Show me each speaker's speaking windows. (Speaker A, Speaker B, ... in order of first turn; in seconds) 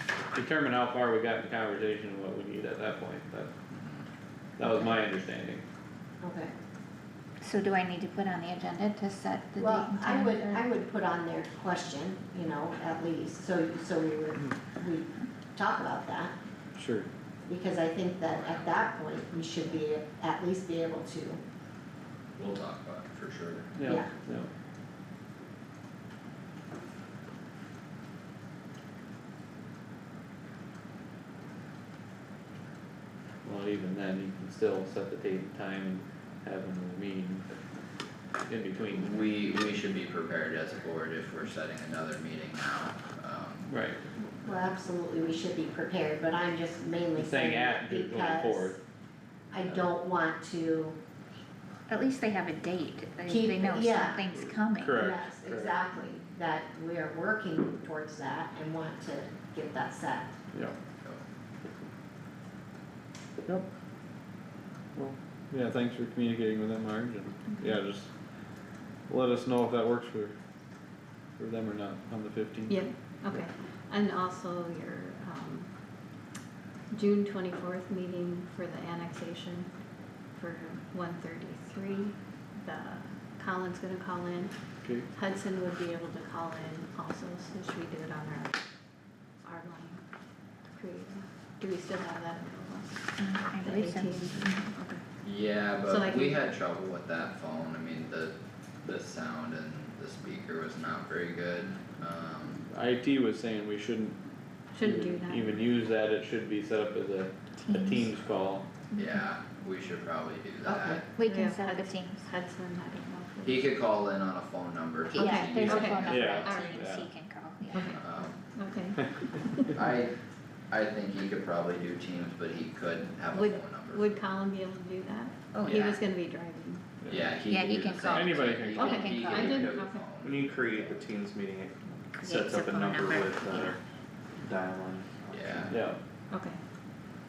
Speaker A: 0.3-3.5, 4.6-5.6, 16.8-17.1, 23.7-24.5, 33.4-37.5, 38.5-39.1, 43.7-44.0, 47.2-48.8, 54.8-55.8, 65.0-68.3, 69.1-70.3, 71.4-73.5, 102.7-104.2, 104.8-108.7, 116.0-117.1, 127.0-127.3, 128.0-129.2, 135.7-136.0
Speaker B: 3.7-4.0, 18.3-19.1, 22.4-23.7, 38.9-43.7, 95.2-102.7, 109.0-111.1, 113.4-116.0, 117.9-118.4, 119.7-120.2, 120.7-124.2, 125.6-126.0, 127.1-130.5, 135.3-135.7
Speaker C: 6.2-6.5, 9.6-16.3, 17.5-21.4, 23.9-24.1, 44.2-48.8, 49.5-51.0, 53.3-54.2, 54.9-60.3, 110.6-111.0
Speaker D: 7.4-10.6, 51.9-55.0, 93.2-94.7, 107.6-108.1, 111.2-112.3, 115.1-118.0, 125.5-125.8, 127.5-129.6, 132.2-133.8
Speaker E: 72.7-75.7, 76.9-79.7, 80.3-88.6, 89.4-90.0, 90.7-95.0, 95.8-96.5, 104.7-105.7, 111.2-113.8, 115.2-117.1, 117.7-119.7, 123.3-126.8, 128.8-130.1, 136.3-136.6
Speaker F: 129.5-133.8, 134.4-135.9